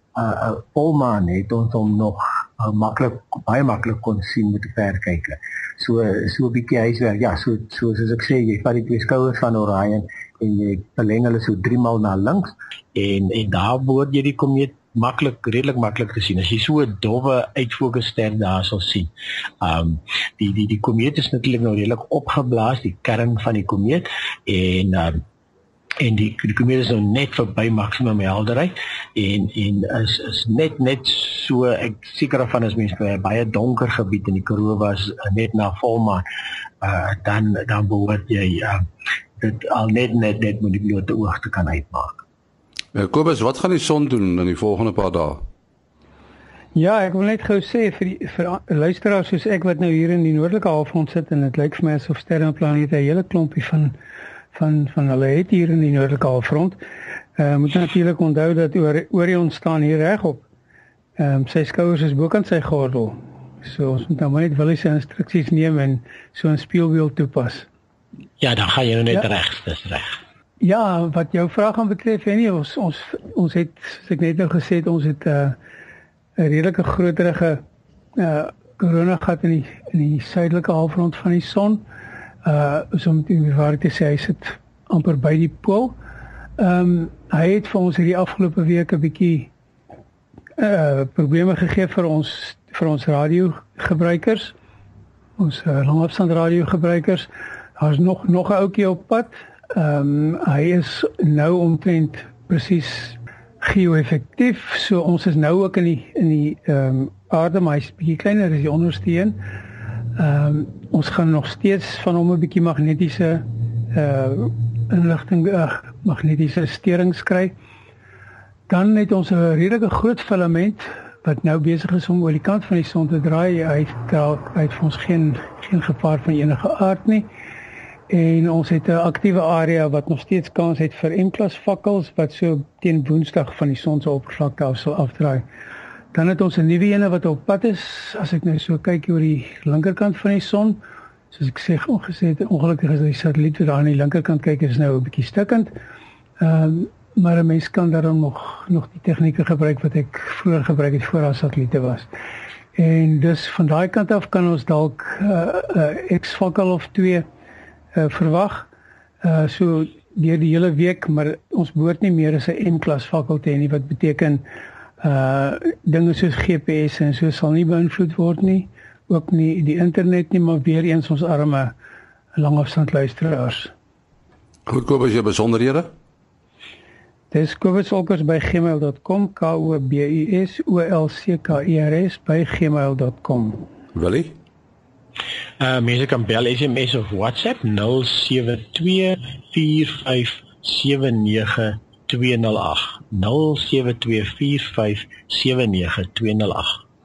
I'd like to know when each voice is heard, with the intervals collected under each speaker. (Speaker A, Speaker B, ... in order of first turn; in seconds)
Speaker A: 0.1-25.2, 26.0-36.2, 36.8-38.8, 39.4-42.2, 68.4-70.2, 185.6-196.8
Speaker B: 42.9-45.4, 174.7-175.9, 183.9-184.3
Speaker C: 46.8-54.0, 54.5-56.8, 57.4-60.5, 61.2-67.7, 70.6-75.6, 76.4-77.6, 78.2-81.8, 82.5-86.0, 86.6-89.5, 90.6-94.5, 95.4-109.4, 110.2-117.5, 118.7-127.3, 128.1-135.4, 136.1-140.8, 141.3-145.7, 146.4-152.1, 152.8-157.2, 157.9-158.7, 159.2-164.4, 165.0-171.7, 172.3-173.7, 177.3-183.7